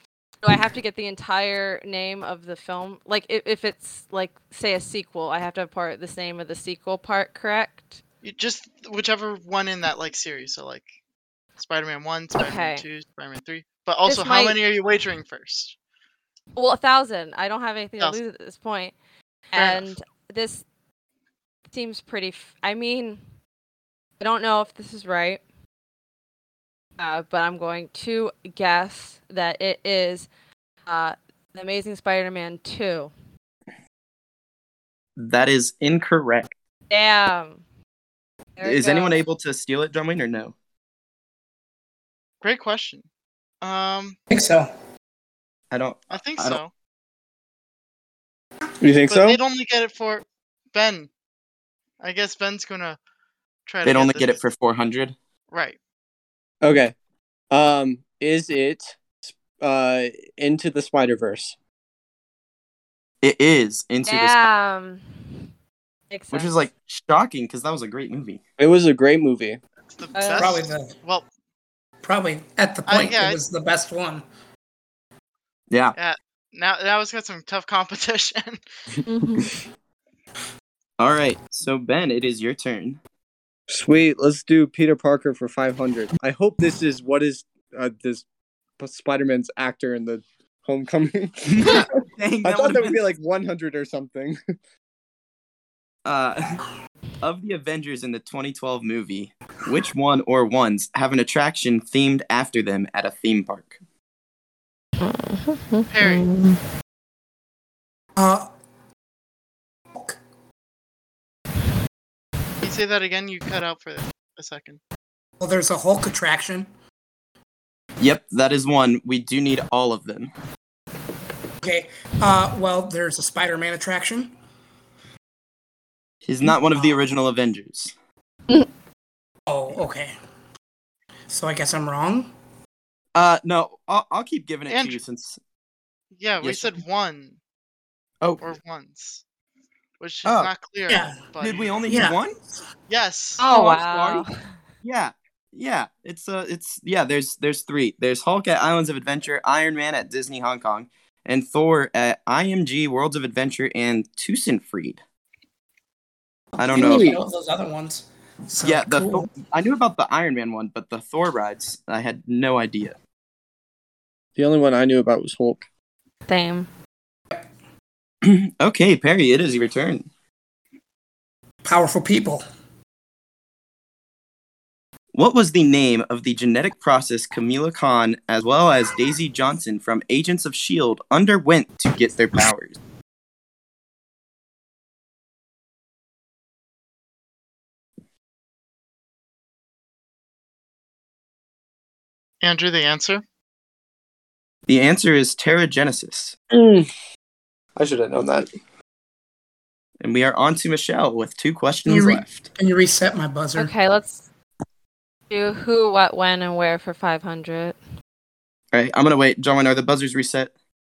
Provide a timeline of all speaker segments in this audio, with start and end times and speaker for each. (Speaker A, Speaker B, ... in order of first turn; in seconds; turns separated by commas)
Speaker A: 0.4-8.0, Speaker B: 8.2-10.9, Speaker B: 11.6-15.8, Speaker A: 12.4-12.8, Speaker A: 14.1-14.6, Speaker A: 16.6-18.9, Speaker A: 19.5-20.6, Speaker B: 19.6-19.9, Speaker A: 21.7-23.2, Speaker A: 24.2-25.4, Speaker A: 27.0-30.3, Speaker A: 30.9-33.1, Speaker C: 35.2-36.5, Speaker A: 36.9-37.6, Speaker A: 38.6-39.2, Speaker C: 38.6-40.5, Speaker B: 42.4-43.0, Speaker B: 43.6-44.2, Speaker D: 44.3-44.7, Speaker C: 45.7-46.6, Speaker B: 46.1-46.7, Speaker E: 48.8-49.4, Speaker B: 49.1-51.1, Speaker B: 52.0-53.0, Speaker B: 53.7-54.4, Speaker C: 53.9-55.2, Speaker B: 55.5-55.8, Speaker E: 56.6-56.9, Speaker E: 57.5-61.5, Speaker C: 63.2-64.4, Speaker A: 64.0-65.5, Speaker A: 66.1-66.6, Speaker C: 66.3-68.4, Speaker E: 68.6-69.6, Speaker B: 69.9-71.3, Speaker A: 70.1-70.6, Speaker D: 70.4-71.0, Speaker D: 72.0-74.2, Speaker B: 72.9-73.4, Speaker C: 75.7-76.0, Speaker B: 76.0-78.6, Speaker A: 79.1-79.5, Speaker C: 81.0-83.0, Speaker E: 83.7-88.2, Speaker E: 88.8-91.9, Speaker C: 91.5-93.1, Speaker E: 92.4-94.4, Speaker C: 96.0-96.6, Speaker C: 97.2-103.8, Speaker A: 105.0-106.6, Speaker B: 105.9-106.3, Speaker D: 108.2-108.5, Speaker B: 112.6-114.8, Speaker D: 115.4-116.7, Speaker C: 118.0-120.3, Speaker D: 121.6-124.4, Speaker C: 126.2-127.9, Speaker D: 129.5-130.2, Speaker D: 131.3-132.3, Speaker C: 133.2-135.4, Speaker B: 134.7-135.0, Speaker B: 136.2-137.4, Speaker C: 136.4-136.8, Speaker C: 138.2-138.5, Speaker B: 138.4-139.2, Speaker B: 140.0-141.7, Speaker C: 140.2-140.5, Speaker D: 140.9-141.3, Speaker C: 141.4-142.3, Speaker D: 141.9-142.2, Speaker B: 142.9-143.4, Speaker A: 143.4-144.5, Speaker C: 143.5-144.2, Speaker C: 144.8-155.0, Speaker D: 156.5-159.3, Speaker C: 156.6-157.2, Speaker E: 156.8-157.2, Speaker C: 158.6-162.9, Speaker E: 164.4-165.7, Speaker A: 166.3-166.7, Speaker C: 168.2-170.1, Speaker D: 171.6-172.4, Speaker C: 175.1-182.8, Speaker B: 192.4-193.2, Speaker C: 194.7-196.3, Speaker E: 196.5-196.9, Speaker E: 197.8-198.5, Speaker C: 200.0-202.3, Speaker D: 201.9-203.7, Speaker A: 203.6-204.3, Speaker A: 205.3-207.8, Speaker C: 208.7-210.5